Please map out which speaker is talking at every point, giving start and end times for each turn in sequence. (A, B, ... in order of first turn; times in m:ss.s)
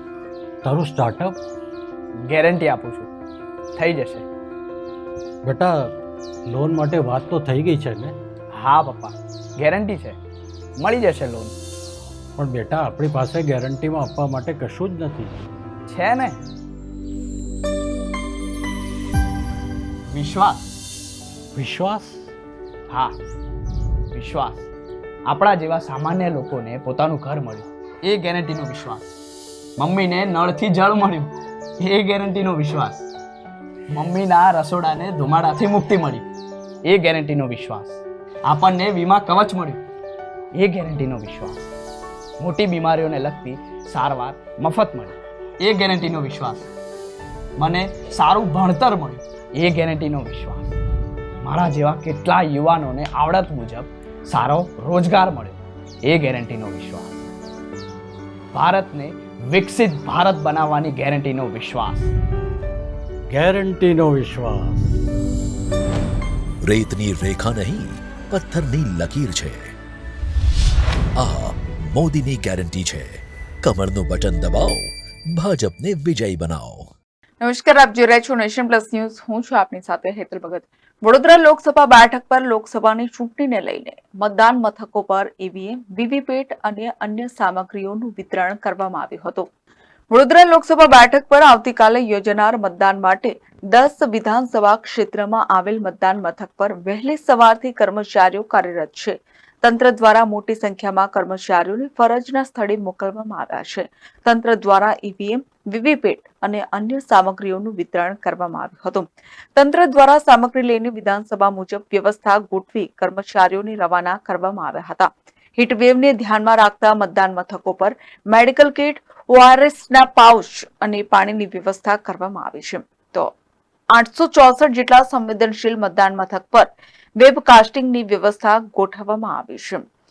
0:00.6-0:01.4 A
0:02.3-0:03.1 B
0:03.8-0:04.3 B
0:05.4-0:05.9 A
0:06.5-0:08.2 A
0:08.5-0:10.2 B
0:10.8-0:11.5 B
0:12.4-0:15.4 A
0:15.9-0:16.4 B
0:20.1-0:20.7 B
0:21.5-0:22.3 A
0:22.9-0:23.2 B
0:24.1-0:24.7 B
0:25.3-0:29.1 B
0:29.8-0:33.1 B
0:33.9-0:36.2 B
0:36.9-0:39.8 B
0:40.6-0:41.7 B
0:42.4-0:46.7 B
0:47.6-0:50.8 B
0:51.4-0:57.2 B
0:58.5-1:02.1 B
1:03.3-1:04.9 A
1:06.6-1:09.7 C
1:11.2-1:16.9 C
1:17.4-1:29.5 D
1:30.1-2:03.3 D
2:03.9-2:09.8 D